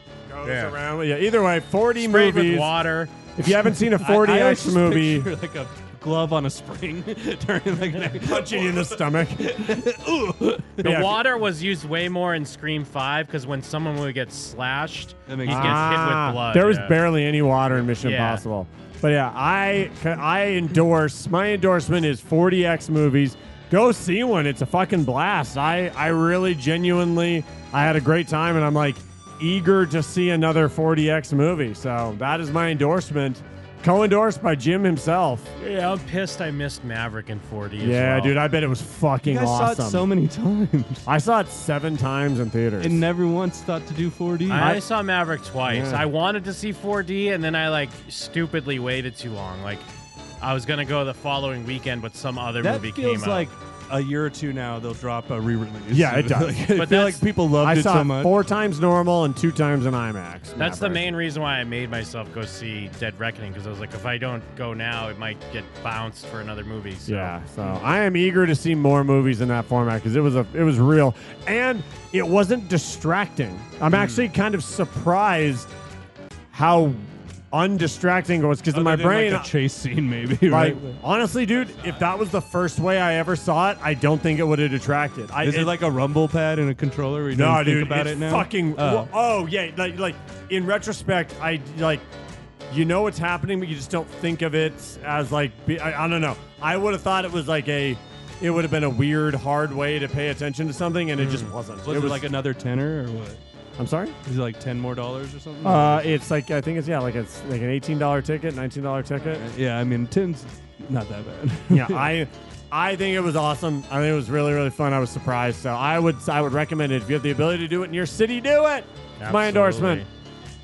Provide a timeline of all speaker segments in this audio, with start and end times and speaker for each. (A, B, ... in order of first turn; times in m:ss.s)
0:00.3-0:02.7 A
0:00.4-0:00.8 B
0:02.0-0:03.1 B
0:03.4-0:05.3 A
0:03.4-0:11.1 C
0:08.2-0:09.8 A
0:10.8-0:11.2 A
0:10.8-0:17.0 B
0:15.3-0:15.9 C
0:15.5-0:35.5 A
0:17.7-0:18.4 B
0:35.6-0:38.4 B
0:37.8-0:40.1 A
0:39.2-0:41.0 C
0:41.0-0:43.0 A
0:42.8-0:44.8 C
0:44.5-0:49.9 B
0:44.5-0:44.8 A
0:45.7-0:46.1 A
0:50.4-0:53.5 B
0:52.6-0:58.3 C
0:55.9-0:56.6 A
0:56.8-0:57.2 B
0:57.6-1:01.1 A
1:00.6-1:07.4 B
1:07.1-1:15.7 A
1:13.9-1:14.2 B
1:16.5-1:19.5 A
1:18.7-1:21.0 C
1:20.5-1:25.7 A
1:25.4-1:29.1 C
1:27.3-1:32.0 A
1:32.7-1:42.3 A
1:41.2-1:41.5 B
1:41.8-1:43.4 C
1:43.8-1:44.2 A
1:44.2-1:46.1 C
1:45.6-1:49.4 A
1:49.3-1:52.1 C
1:51.7-2:00.0 A
1:59.2-2:00.1 B